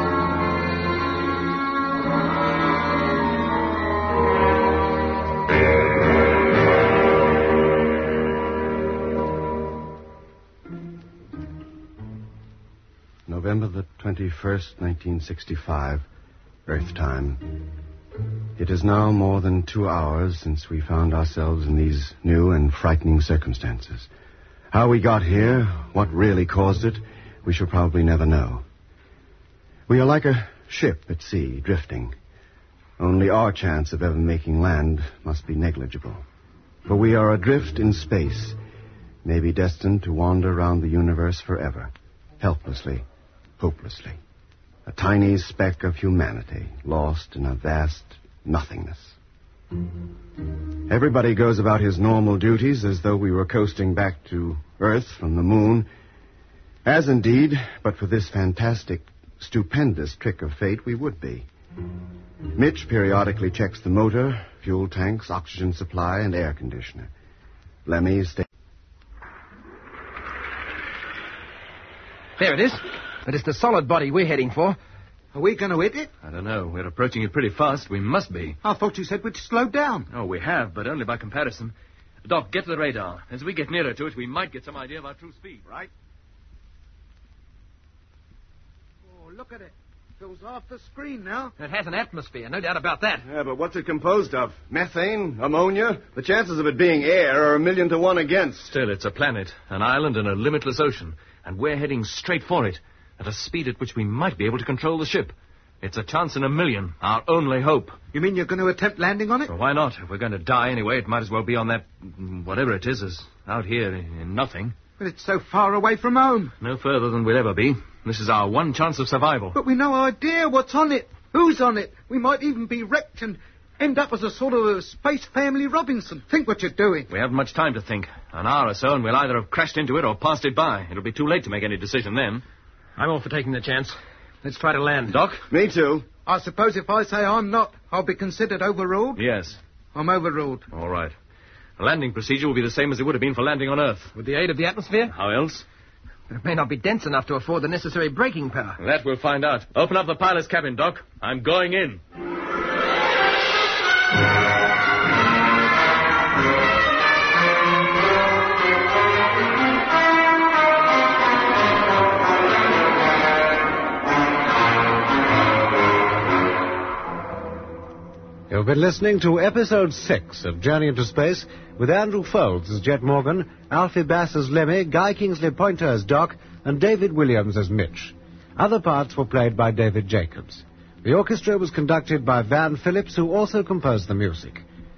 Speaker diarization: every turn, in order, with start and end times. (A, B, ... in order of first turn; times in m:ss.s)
0:13.3-0:16.0 A
0:16.7-0:17.6 A
0:18.6-0:24.1 A
0:24.7-0:28.6 A
0:29.9-0:32.2 A
0:33.0-0:36.2 A
0:36.9-0:38.6 A
0:39.2-0:43.0 A
0:43.6-0:44.2 A
0:44.9-0:49.2 A
0:50.9-0:55.9 A
0:56.8-1:01.5 A
1:02.5-1:07.1 A
1:07.8-1:08.4 A
1:12.4-1:14.8 B
1:15.3-1:16.1 C
1:16.2-1:18.6 D
1:18.6-1:20.1 C
1:20.1-1:21.7 D
1:22.2-1:25.6 D
1:25.7-1:25.9 A
1:29.1-1:31.6 C
1:31.6-1:33.3 B
1:33.3-1:38.7 A
1:38.7-1:48.0 D
1:48.1-1:49.5 C
1:49.5-1:54.8 D
1:55.0-1:56.5 C
1:56.6-1:59.6 D
1:59.6-2:07.1 C
2:07.1-2:12.4 D
2:13.0-2:15.2 B
2:15.1-2:15.4 D
2:15.5-2:16.1 A
2:16.3-2:19.2 C
2:19.2-2:19.6 D
2:19.9-2:20.7 C
2:20.7-2:21.2 D
2:21.8-2:24.1 D
2:24.2-2:25.1 B
2:25.1-2:25.6 D
2:26.3-2:28.8 B
2:28.8-2:32.0 D
2:48.5-3:04.6 E